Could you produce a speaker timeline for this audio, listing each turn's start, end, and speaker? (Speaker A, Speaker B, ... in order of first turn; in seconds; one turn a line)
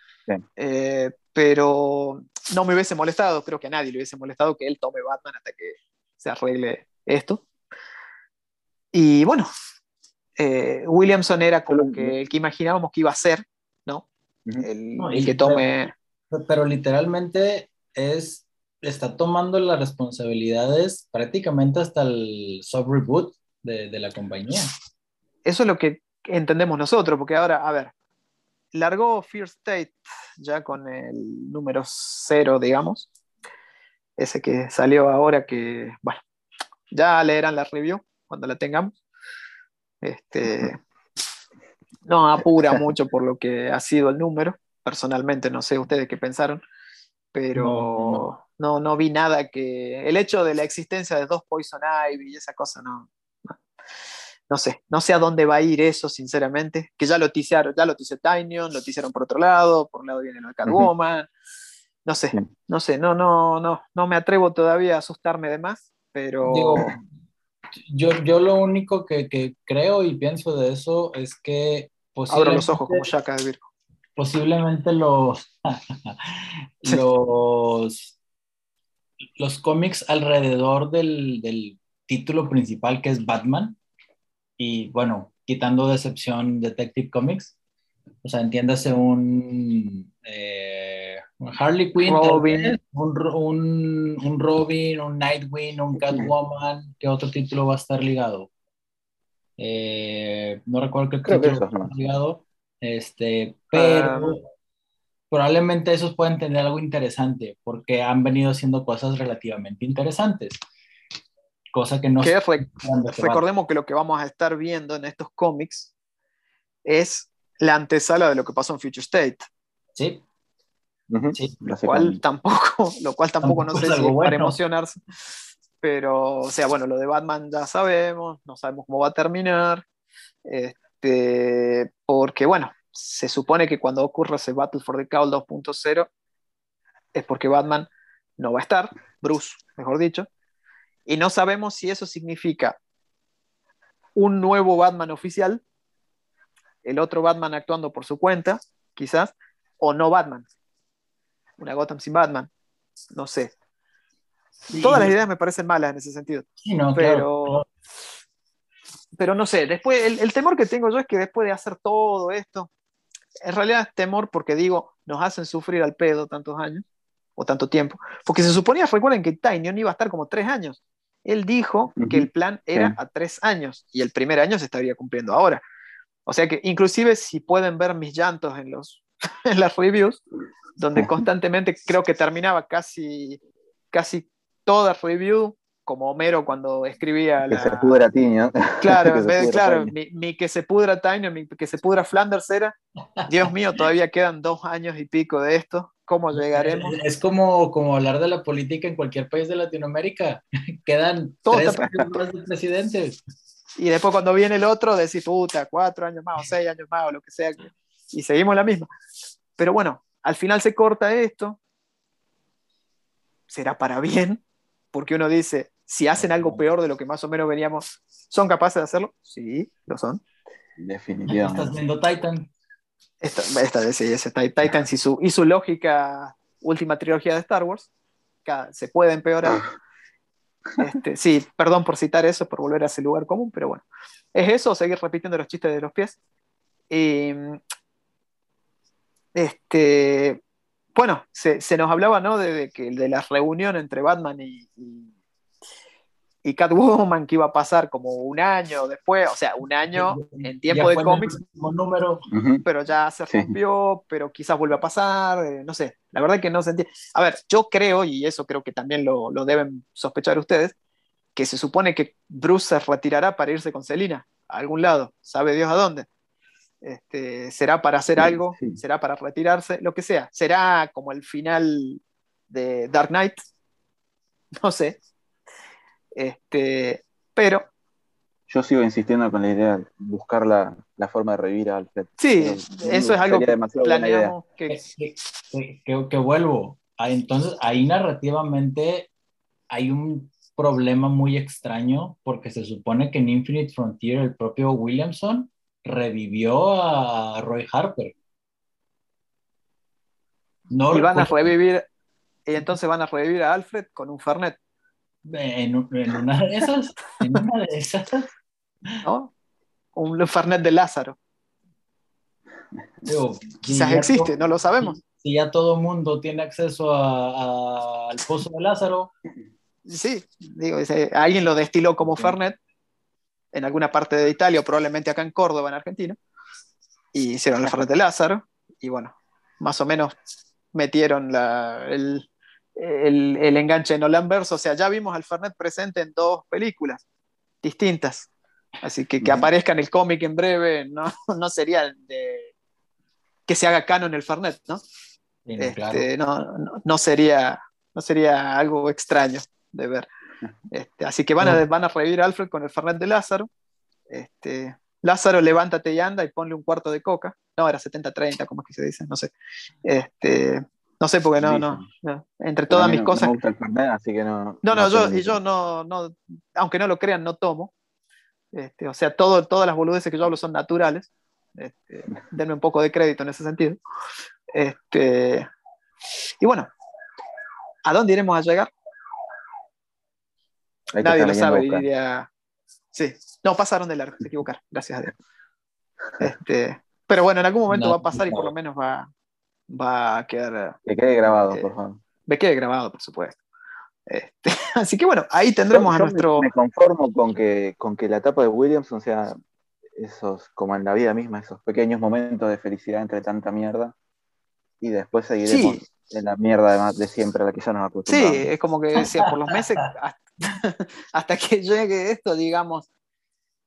Speaker A: 0.6-7.4
Speaker A: 8.9-9.5
Speaker A: 10.4-14.1
Speaker B: 11.7-12.1
Speaker A: 14.6-15.9
Speaker C: 15.0-15.7
Speaker C: 16.3-24.7
Speaker A: 25.4-27.9
Speaker A: 28.7-33.1
Speaker A: 34.2-36.2
Speaker A: 36.9-39.0
Speaker A: 40.0-40.8
Speaker A: 42.0-46.6
Speaker A: 47.3-53.5
Speaker C: 47.5-48.2
Speaker A: 54.5-61.3
Speaker A: 62.0-66.9
Speaker C: 66.4-67.0
Speaker C: 67.9-73.1
Speaker A: 72.3-73.7
Speaker C: 74.2-78.1
Speaker C: 79.4-83.8
Speaker C: 84.6-87.5
Speaker C: 88.2-98.5
Speaker A: 92.0-92.8
Speaker C: 99.6-104.4
Speaker B: 101.2-101.9
Speaker A: 103.7-104.4
Speaker C: 105.3-110.6
Speaker C: 111.7-113.4
Speaker A: 112.2-115.9
Speaker A: 116.8-119.5
Speaker C: 119.9-120.2
Speaker B: 121.1-122.2
Speaker C: 121.3-121.6
Speaker A: 121.8-125.0
Speaker C: 123.4-124.5
Speaker A: 125.8-129.8
Speaker A: 130.4-136.1
Speaker A: 137.1-140.3
Speaker A: 141.1-142.8
Speaker A: 144.1-145.6
Speaker A: 146.8-150.4
Speaker A: 151.6-152.5
Speaker A: 153.1-153.5
Speaker C: 154.7-155.1
Speaker A: 154.8-157.6
Speaker C: 156.6-157.7
Speaker A: 159.2-162.7
Speaker A: 163.4-166.8
Speaker A: 167.4-175.6
Speaker B: 171.9-172.9
Speaker A: 176.2-180.2
Speaker A: 180.8-183.4
Speaker A: 183.9-188.0
Speaker B: 187.5-189.9
Speaker A: 188.8-197.0
Speaker C: 196.3-203.2
Speaker A: 201.4-201.9
Speaker A: 203.8-208.9
Speaker A: 209.6-211.6
Speaker A: 213.5-220.2
Speaker C: 216.3-216.6
Speaker B: 220.8-221.8
Speaker C: 221.3-222.5
Speaker A: 223.2-227.9
Speaker A: 228.4-229.6
Speaker A: 230.8-236.2
Speaker A: 236.9-237.6
Speaker A: 239.3-240.4
Speaker A: 240.9-245.1
Speaker A: 246.4-251.3
Speaker C: 249.9-252.2
Speaker B: 252.3-252.6
Speaker A: 252.6-260.7
Speaker A: 261.3-266.1
Speaker A: 266.8-273.4
Speaker B: 268.2-268.8
Speaker A: 274.6-275.0
Speaker A: 276.1-277.7
Speaker B: 278.5-284.4
Speaker A: 282.2-284.8
Speaker C: 284.7-289.1
Speaker C: 289.7-298.1
Speaker C: 300.7-301.5
Speaker A: 300.9-301.9
Speaker A: 302.4-304.6
Speaker C: 305.2-308.3
Speaker A: 309.0-309.3
Speaker A: 309.9-311.2
Speaker C: 313.1-319.1
Speaker A: 313.7-315.0
Speaker A: 319.9-322.6
Speaker B: 322.1-322.3
Speaker A: 323.5-326.2
Speaker A: 327.1-330.1
Speaker A: 330.7-337.0
Speaker A: 337.6-338.3
Speaker A: 338.8-342.5
Speaker B: 339.2-339.5
Speaker A: 343.5-344.8
Speaker C: 345.4-346.1
Speaker A: 345.6-350.1
Speaker A: 350.7-353.5
Speaker A: 354.1-359.3
Speaker A: 359.8-363.4
Speaker B: 361.4-361.9
Speaker B: 362.7-365.4
Speaker A: 364.6-367.7
Speaker A: 368.5-373.8
Speaker A: 374.5-375.5
Speaker A: 376.4-376.7
Speaker A: 377.9-378.7
Speaker B: 380.9-381.8
Speaker A: 381.0-382.3
Speaker A: 382.9-385.1
Speaker A: 386.2-389.1
Speaker C: 387.7-388.5
Speaker A: 389.7-391.7
Speaker B: 390.9-392.0
Speaker A: 392.2-393.4
Speaker A: 394.1-396.5
Speaker B: 395.7-399.4
Speaker B: 399.9-403.9
Speaker B: 404.8-408.5
Speaker A: 405.4-405.8
Speaker A: 408.1-412.9